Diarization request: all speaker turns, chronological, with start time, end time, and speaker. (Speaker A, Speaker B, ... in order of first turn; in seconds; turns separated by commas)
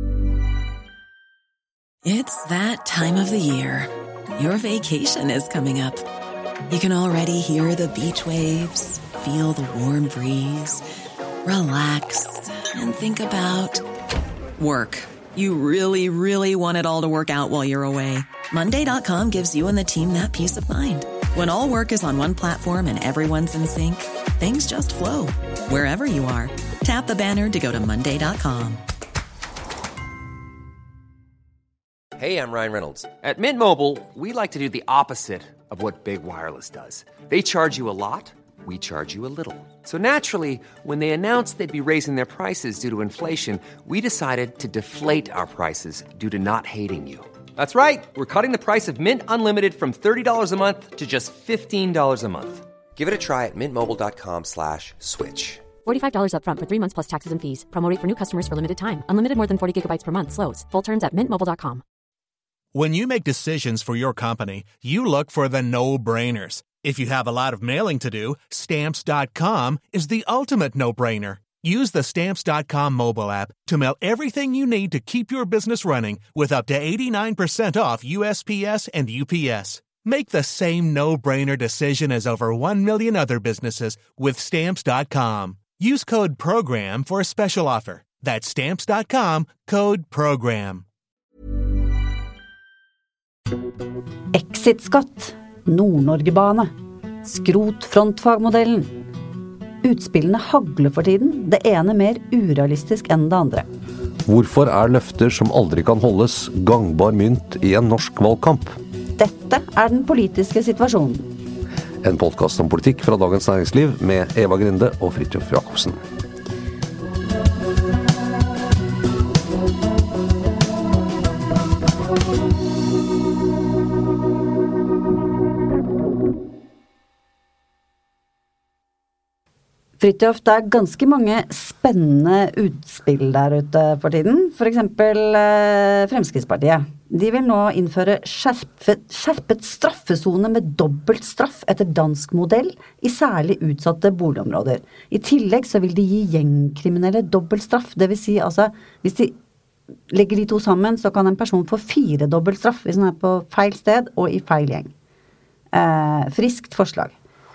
Speaker A: 2.0-6.0, Speaker A: 6.7-10.8, Speaker A: 11.4-13.8, Speaker A: 14.6-28.8, Speaker B: 32.2-55.6, Speaker C: 55.8-61.8, Speaker D: 62.7-90.8, Speaker E: 94.3-96.7, Speaker E: 97.2-98.9, Speaker E: 99.8-103.6, Speaker F: 104.2-108.8, Speaker E: 109.2-111.3, Speaker F: 112.0-116.0, Speaker E: 130.0-149.3, Speaker E: 150.1-154.9, Speaker E: 155.7-157.1